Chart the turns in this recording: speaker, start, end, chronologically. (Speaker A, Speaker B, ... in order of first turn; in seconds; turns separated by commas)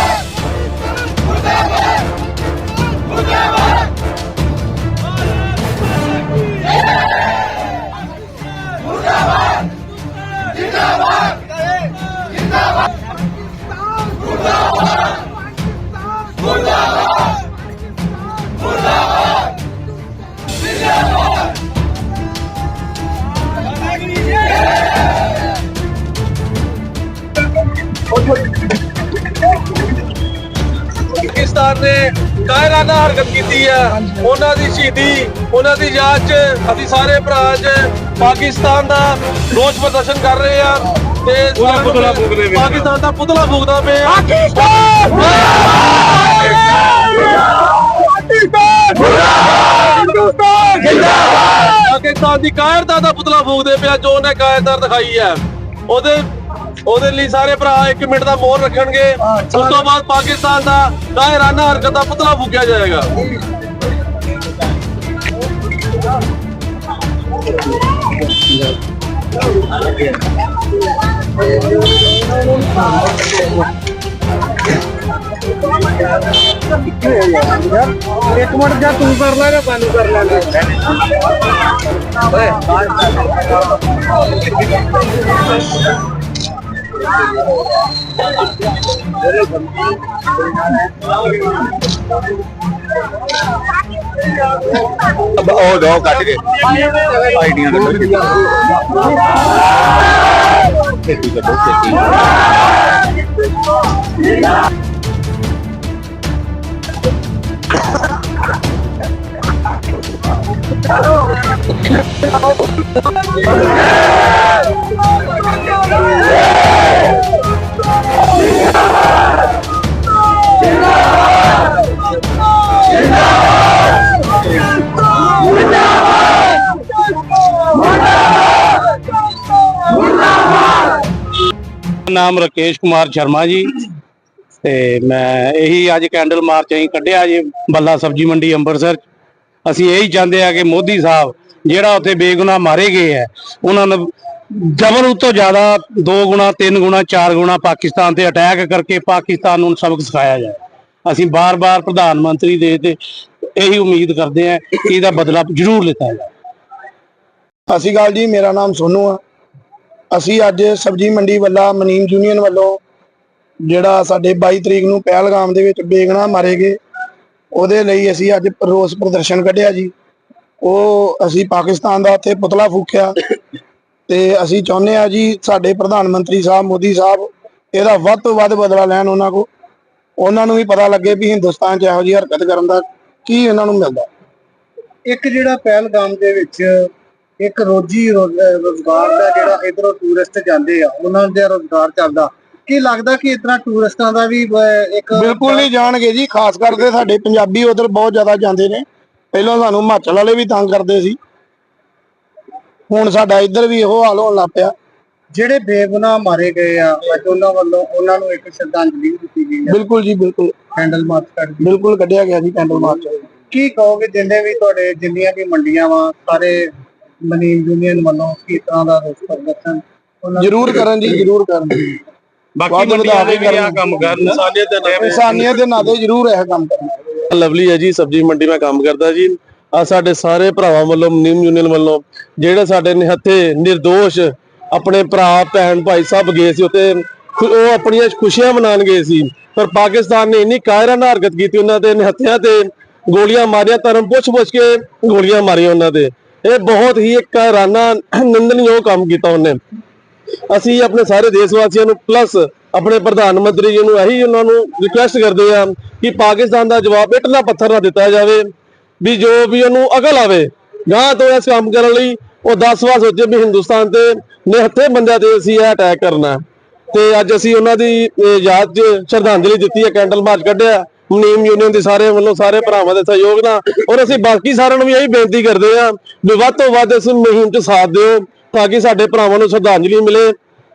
Speaker A: 31.1-45.7, Speaker B: 41.5-42.9, Speaker A: 48.3-49.0, Speaker A: 49.8-56.3, Speaker A: 56.9-63.1, Speaker C: 59.2-59.9, Speaker C: 76.8-80.8, Speaker C: 82.4-83.1, Speaker D: 95.3-98.3, Speaker D: 101.0-102.1, Speaker B: 132.1-133.8, Speaker B: 134.6-139.0, Speaker B: 139.7-153.0, Speaker B: 153.6-156.3, Speaker E: 157.7-159.2, Speaker E: 160.1-162.8, Speaker E: 163.7-166.8, Speaker E: 167.5-169.9, Speaker E: 170.6-173.1, Speaker E: 174.1-179.5, Speaker E: 180.2-184.1, Speaker C: 185.1-186.9, Speaker C: 187.4-195.7, Speaker E: 195.2-201.2, Speaker E: 202.9-204.7, Speaker C: 205.3-209.8, Speaker E: 209.7-210.5, Speaker C: 210.8-211.7, Speaker E: 211.6-213.2, Speaker C: 213.5-216.7, Speaker C: 217.2-220.6, Speaker E: 220.4-221.9, Speaker B: 222.6-224.4, Speaker E: 222.7-223.9, Speaker A: 224.2-225.2, Speaker B: 224.9-225.2, Speaker E: 225.0-227.0, Speaker A: 227.3-249.6, Speaker A: 250.5-258.5, Speaker A: 259.0-266.4, Speaker A: 266.9-280.4